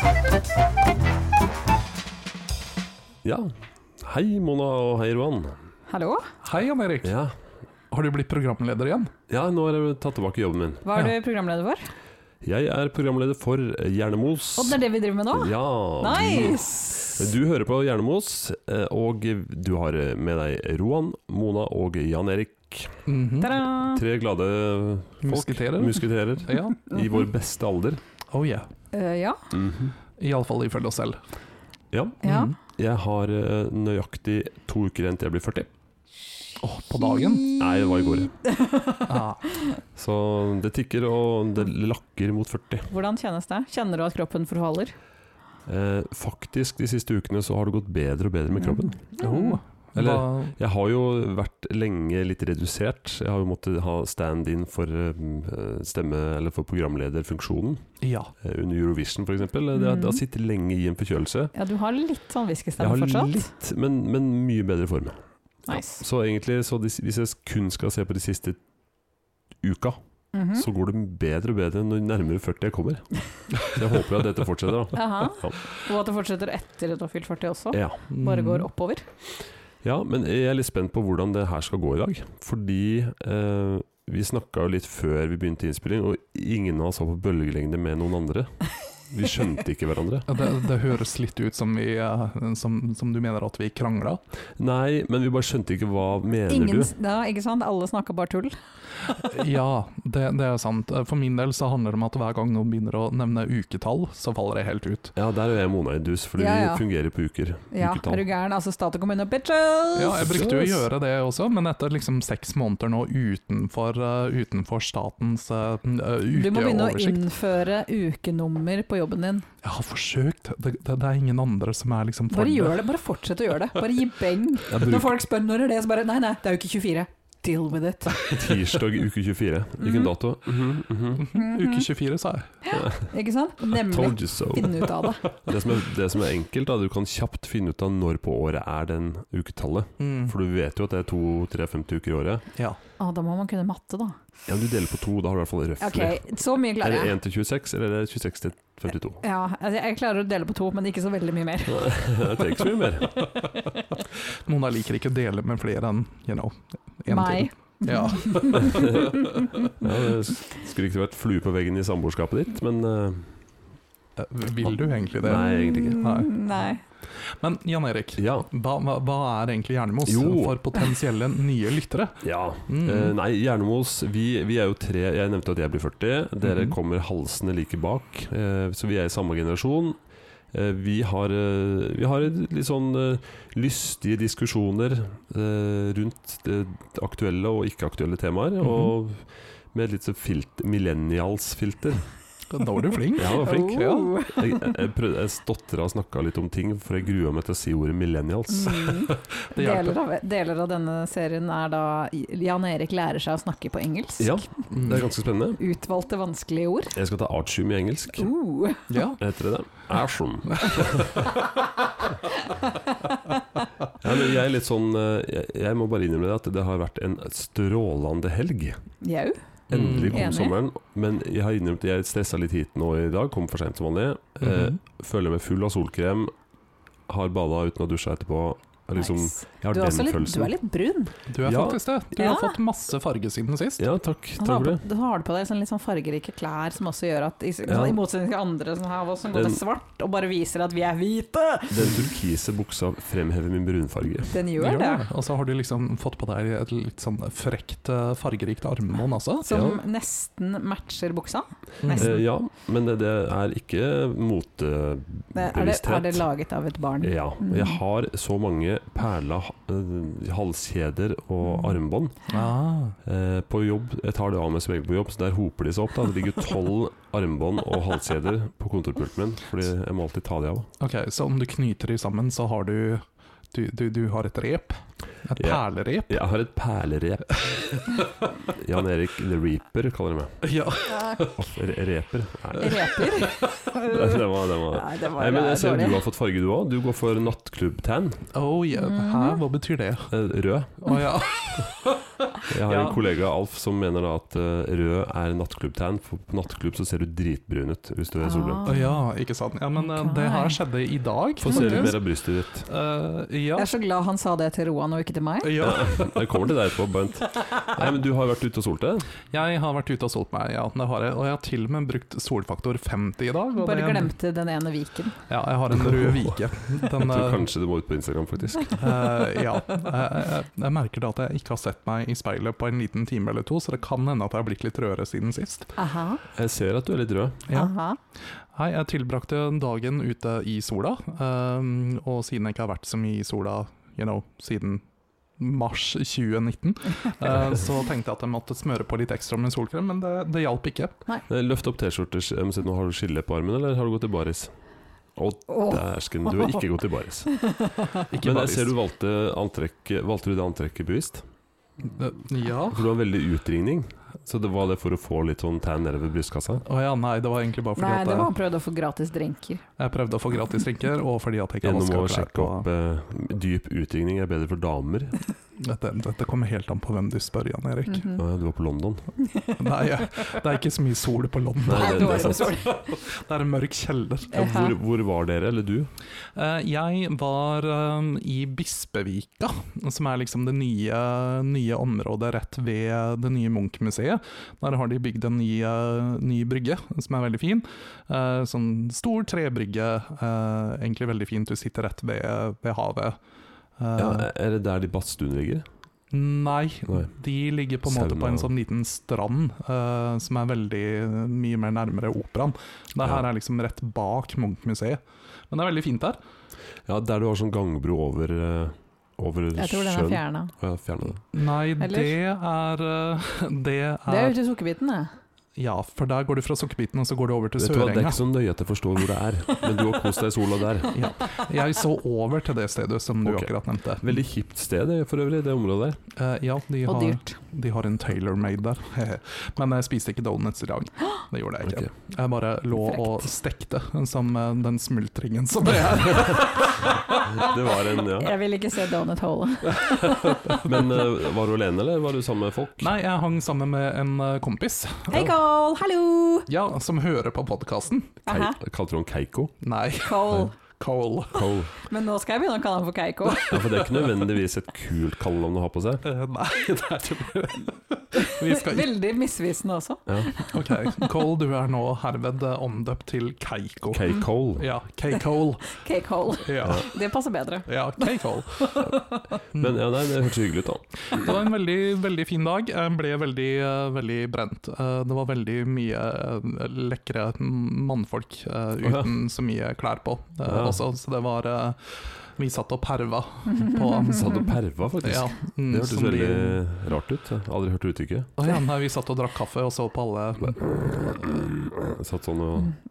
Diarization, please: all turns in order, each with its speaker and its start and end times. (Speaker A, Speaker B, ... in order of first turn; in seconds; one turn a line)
Speaker A: 3.2-5.6
Speaker B: 5.9-6.3
Speaker C: 6.4-7.2
Speaker A: 7.0-7.3
Speaker C: 7.9-9.1
Speaker A: 9.3-10.8
Speaker B: 10.8-11.9
Speaker A: 12.4-14.8
Speaker B: 14.6-17.3
Speaker A: 15.3-23.1
Speaker C: 23.1-23.5
Speaker B: 23.4-24.0
Speaker A: 23.6-28.0
Speaker C: 25.2-26.8
Speaker B: 26.9-27.2
Speaker C: 28.3-28.7
Speaker B: 28.9-29.4
Speaker A: 29.5-29.9
Speaker C: 30.2-31.2
Speaker A: 31.9-35.7
Speaker B: 32.2-32.5
Speaker C: 32.2-32.5
Speaker C: 36.6-37.4
Speaker B: 37.0-39.8
Speaker A: 37.6-38.3
Speaker C: 39.1-39.4
Speaker A: 39.9-42.9
Speaker B: 42.9-44.9
Speaker A: 45.6-49.2
Speaker B: 48.6-49.6
Speaker C: 49.2-50.5
Speaker A: 49.9-57.8
Speaker C: 58.0-58.3
Speaker A: 58.4-61.5
Speaker B: 59.7-60.2
Speaker B: 61.5-63.5
Speaker A: 62.8-68.6
Speaker B: 65.7-66.0
Speaker A: 69.6-70.0
Speaker B: 70.3-70.7
Speaker A: 70.5-75.6
Speaker B: 74.9-79.0
Speaker A: 77.7-78.0
Speaker C: 78.1-78.7
Speaker A: 79.8-90.3
Speaker C: 90.3-94.2
Speaker A: 94.6-96.9
Speaker B: 96.5-98.5
Speaker C: 99.1-105.1
Speaker A: 105.2-108.2
Speaker B: 106.4-106.8
Speaker B: 107.7-110.7
Speaker C: 110.0-117.2
Speaker A: 110.3-110.7
Speaker B: 116.3-119.5
Speaker C: 119.6-122.8
Speaker B: 122.3-128.3
Speaker A: 124.7-125.1
Speaker A: 128.2-131.3
Speaker B: 129.8-130.1
Speaker C: 131.2-132.5
Speaker B: 131.3-131.9
Speaker B: 132.6-135.3
Speaker A: 132.7-133.1
Speaker A: 133.7-142.5
Speaker C: 140.0-140.3
Speaker B: 143.0-144.2
Speaker A: 144.5-146.2
Speaker B: 145.8-147.1
Speaker A: 146.8-149.2
Speaker B: 149.2-152.0
Speaker A: 151.7-153.3
Speaker C: 154.0-159.1
Speaker B: 157.1-159.7
Speaker A: 158.5-159.1
Speaker A: 159.8-163.4
Speaker C: 164.2-166.3
Speaker A: 164.6-166.2
Speaker B: 165.2-166.8
Speaker C: 167.1-173.2
Speaker A: 168.2-168.5
Speaker A: 170.1-170.7
Speaker A: 172.2-180.0
Speaker C: 176.4-176.8
Speaker A: 180.5-192.1
Speaker C: 188.6-188.9
Speaker C: 192.5-194.1
Speaker A: 193.2-199.2
Speaker B: 193.3-194.8
Speaker B: 198.5-204.4
Speaker C: 199.5-200.0
Speaker A: 204.2-205.6
Speaker C: 204.7-205.1
Speaker B: 205.6-206.9
Speaker A: 206.9-208.3
Speaker B: 208.2-209.0
Speaker C: 208.9-209.2
Speaker A: 209.2-211.3
Speaker B: 212.4-213.3
Speaker A: 214.0-218.8
Speaker B: 219.0-219.4
Speaker C: 219.7-220.3
Speaker A: 219.7-226.3
Speaker B: 220.0-220.6
Speaker C: 224.4-224.8
Speaker A: 227.1-230.5
Speaker B: 229.0-231.1
Speaker C: 231.3-233.8
Speaker A: 231.4-231.8
Speaker B: 232.2-232.6
Speaker A: 233.8-234.8
Speaker B: 234.4-242.0
Speaker A: 237.7-238.0
Speaker A: 239.3-239.6
Speaker A: 241.7-244.4
Speaker B: 244.3-245.0
Speaker C: 244.6-249.6
Speaker B: 249.4-252.2
Speaker A: 249.5-249.8
Speaker C: 251.8-252.2
Speaker A: 251.9-256.3
Speaker B: 255.3-257.8
Speaker A: 257.0-262.2
Speaker C: 262.3-263.0
Speaker A: 263.0-270.7
Speaker C: 270.8-276.2
Speaker A: 275.4-280.4
Speaker C: 280.4-281.3
Speaker B: 280.9-281.3
Speaker A: 281.2-288.2
Speaker B: 282.6-286.0
Speaker C: 288.3-290.1
Speaker B: 288.8-289.4
Speaker A: 290.1-291.1
Speaker C: 290.8-293.0
Speaker A: 292.4-298.7
Speaker B: 298.2-299.1
Speaker C: 298.6-302.0
Speaker B: 299.8-300.6
Speaker A: 301.4-302.7
Speaker B: 301.5-301.9
Speaker C: 302.7-303.7
Speaker B: 303.6-305.6
Speaker C: 305.4-306.5
Speaker A: 305.6-309.1
Speaker C: 309.3-314.1
Speaker B: 313.5-315.2
Speaker C: 315.3-317.5
Speaker A: 315.9-318.9
Speaker C: 318.8-325.7
Speaker B: 325.8-326.2
Speaker A: 326.3-327.5
Speaker C: 327.5-327.7
Speaker B: 327.5-328.0
Speaker C: 328.5-334.8
Speaker C: 335.4-341.0
Speaker A: 341.3-344.5
Speaker A: 345.1-351.2
Speaker B: 345.5-345.8
Speaker B: 346.3-346.6
Speaker B: 347.3-348.0
Speaker C: 348.1-348.7
Speaker C: 351.9-352.9
Speaker A: 352.7-356.6
Speaker C: 356.6-358.3
Speaker B: 357.8-359.6
Speaker C: 359.8-362.7
Speaker A: 361.6-365.2
Speaker C: 365.6-368.1
Speaker B: 367.9-368.2
Speaker A: 368.2-369.1
Speaker B: 369.2-369.6
Speaker C: 369.6-374.5
Speaker A: 371.6-372.8
Speaker B: 371.7-372.8
Speaker B: 374.3-374.8
Speaker A: 374.3-375.9
Speaker C: 376.3-393.2
Speaker C: 393.8-394.2
Speaker A: 394.0-395.6
Speaker C: 396.1-406.2
Speaker A: 397.8-398.5
Speaker A: 406.9-411.2
Speaker B: 409.6-410.5
Speaker C: 411.3-414.4
Speaker B: 411.8-412.1
Speaker B: 414.1-415.1
Speaker C: 415.6-418.2
Speaker A: 417.6-421.0
Speaker C: 420.9-424.2
Speaker A: 423.2-426.0
Speaker C: 426.1-437.5
Speaker B: 426.9-427.4
Speaker A: 431.6-431.9
Speaker B: 432.8-433.2
Speaker A: 436.1-436.5
Speaker A: 437.1-438.4
Speaker B: 438.1-440.6
Speaker C: 439.8-441.0
Speaker A: 440.6-442.9
Speaker C: 442.8-445.2
Speaker B: 445.1-446.5
Speaker C: 446.5-448.2
Speaker B: 448.2-448.6
Speaker A: 448.3-449.5
Speaker C: 449.6-451.5
Speaker B: 450.0-450.5
Speaker A: 451.3-451.7
Speaker B: 451.9-453.7
Speaker A: 453.5-456.0
Speaker C: 456.0-458.9
Speaker B: 458.1-460.5
Speaker C: 460.5-465.7
Speaker A: 463.9-464.7
Speaker B: 465.7-469.4
Speaker C: 466.4-466.9
Speaker A: 466.6-466.9
Speaker C: 467.7-469.0
Speaker A: 469.5-471.2
Speaker C: 471.1-484.4
Speaker A: 478.8-479.1
Speaker A: 480.4-480.8
Speaker B: 483.5-484.3
Speaker A: 484.0-488.3
Speaker C: 485.0-486.6
Speaker C: 488.4-491.5
Speaker A: 491.1-492.7